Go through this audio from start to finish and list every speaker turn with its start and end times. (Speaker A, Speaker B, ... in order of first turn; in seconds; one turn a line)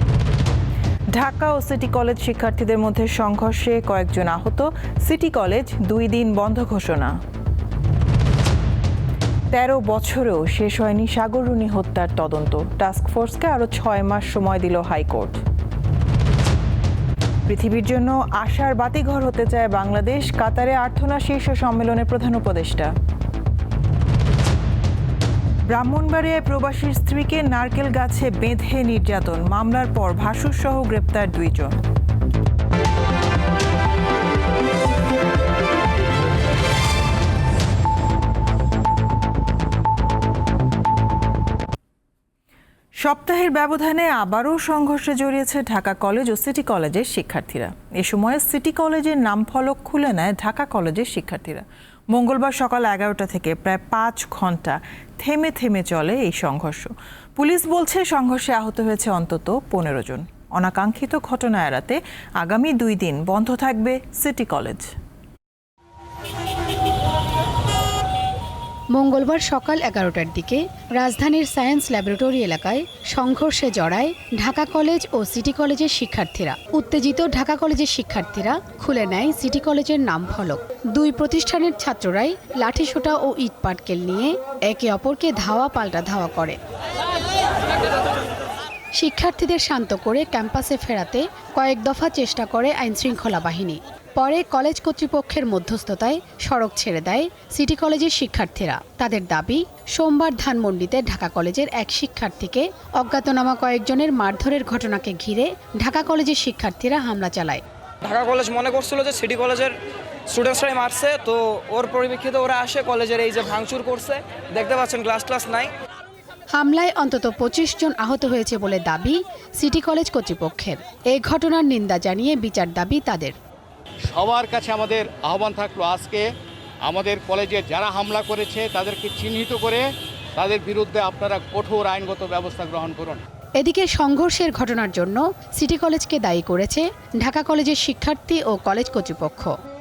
Speaker A: 1.1-7.2
Speaker A: 9.5-15.4
Speaker A: 17.5-22.9
Speaker A: 25.7-31.8
Speaker A: 43.0-64.9
Speaker B: 68.9-86.6
Speaker B: 89.0-107.6
Speaker C: 108.0-109.8
Speaker C: 110.3-115.7
Speaker B: 116.5-123.3
Speaker D: 124.1-126.2
Speaker D: 126.8-129.8
Speaker D: 130.4-133.2
Speaker B: 133.6-139.5